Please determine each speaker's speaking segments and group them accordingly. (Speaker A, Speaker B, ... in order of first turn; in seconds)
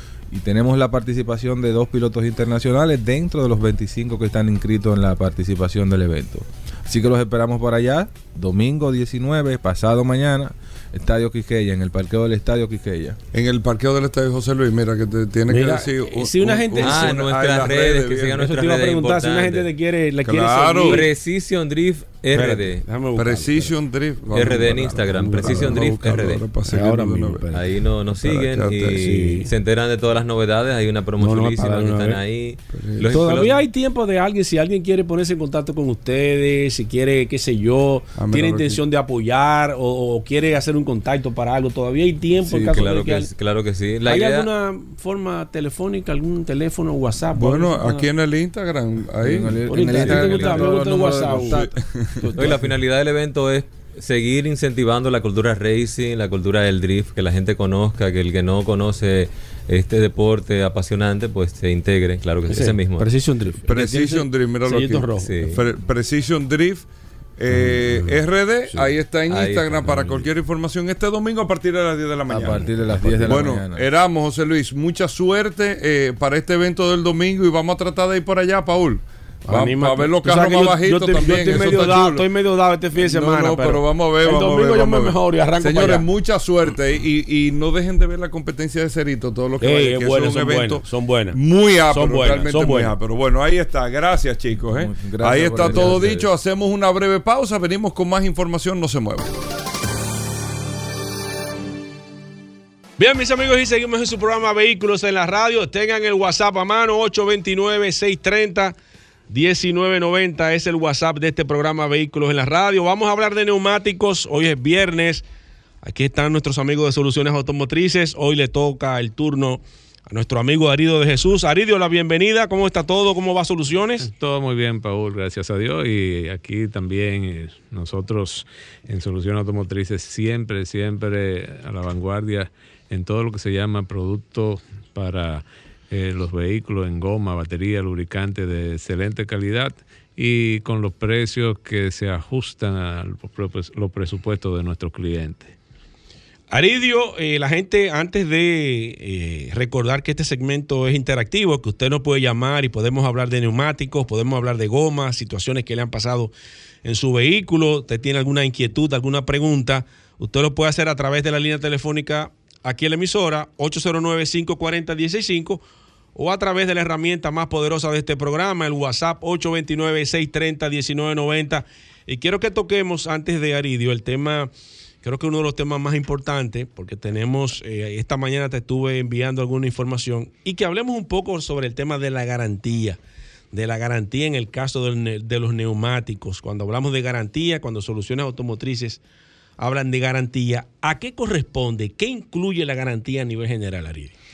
Speaker A: 0.3-13.2, 42.4-42.9, 49.2-52.7, 72.3-73.9, 94.6-96.3
Speaker B: 13.3-18.4, 20.2-21.1, 23.1-29.4, 32.7-33.3, 38.2-38.8, 47.3-50.6, 51.3-52.6, 63.6-66.8, 67.4-82.3, 83.0-99.3
Speaker C: 15.5-17.1, 18.3-21.1, 22.3-23.8, 25.0-25.9, 26.7-27.6, 28.9-29.5, 31.2-32.2, 33.0-43.3, 44.0-48.1, 49.7-51.6, 62.5-65.3, 79.5-86.0, 89.6-91.4, 91.9-92.9, 95.7-96.1, 103.0-108.7, 109.3-115.2, 115.8-124.1, 146.5-165.6, 166.1-174.5, 175.0-183.0, 183.5-189.0, 189.6-194.1
Speaker D: 16.8-19.7, 20.8-22.8, 24.3-26.4, 27.5-33.6, 42.7-44.5, 52.3-63.1, 65.2-65.6, 69.3-70.3
Speaker E: 124.0-145.5